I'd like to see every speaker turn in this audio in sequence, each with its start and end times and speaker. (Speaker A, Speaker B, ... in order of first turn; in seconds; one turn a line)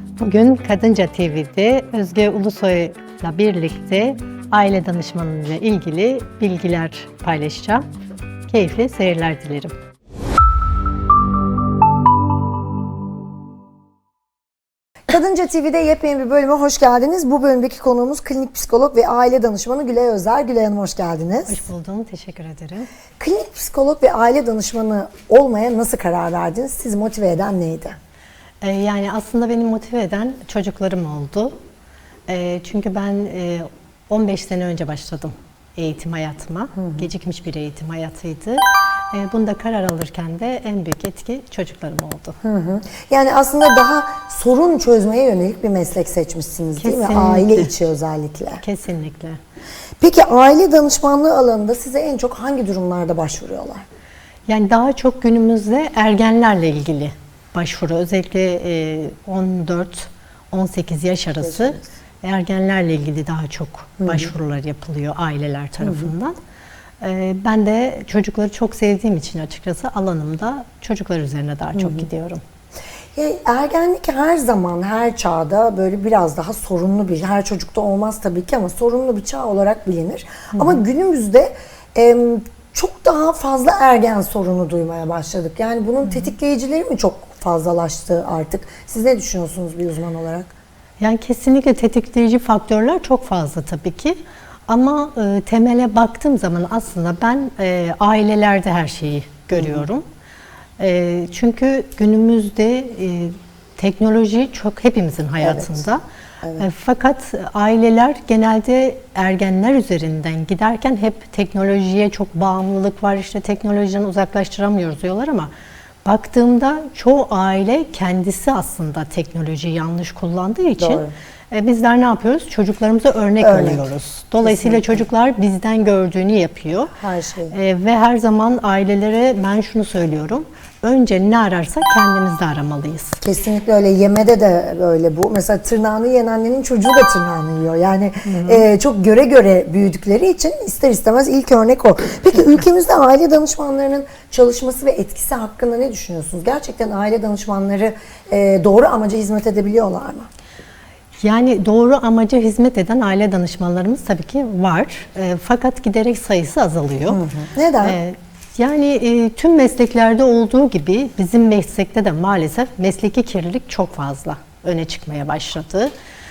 Speaker A: 0.2-7.9
Speaker A: 8.5-9.7
Speaker B: 15.1-21.6
Speaker A: 21.5-22.9
Speaker B: 23.2-28.0
Speaker A: 28.6-31.6
Speaker A: 32.3-42.4
Speaker B: 36.8-37.1
Speaker B: 42.4-48.6
Speaker A: 46.8-47.7
Speaker A: 48.6-49.4
Speaker B: 50.0-53.9
Speaker A: 54.5-66.4
Speaker B: 61.4-61.9
Speaker B: 64.0-64.3
Speaker B: 65.8-66.1
Speaker A: 67.0-72.4
Speaker B: 71.8-72.1
Speaker B: 73.2-90.5
Speaker A: 91.0-94.2
Speaker A: 94.7-100.0
Speaker B: 99.5-99.8
Speaker A: 100.8-106.0
Speaker B: 105.4-105.8
Speaker A: 106.6-115.5
Speaker A: 116.0-126.9
Speaker B: 120.8-121.1
Speaker B: 123.4-123.9
Speaker B: 124.4-125.1
Speaker B: 127.0-127.5
Speaker A: 127.5-133.2
Speaker B: 133.2-150.3
Speaker A: 138.3-138.7
Speaker A: 151.2-157.2
Speaker B: 157.1-158.0
Speaker A: 157.8-165.9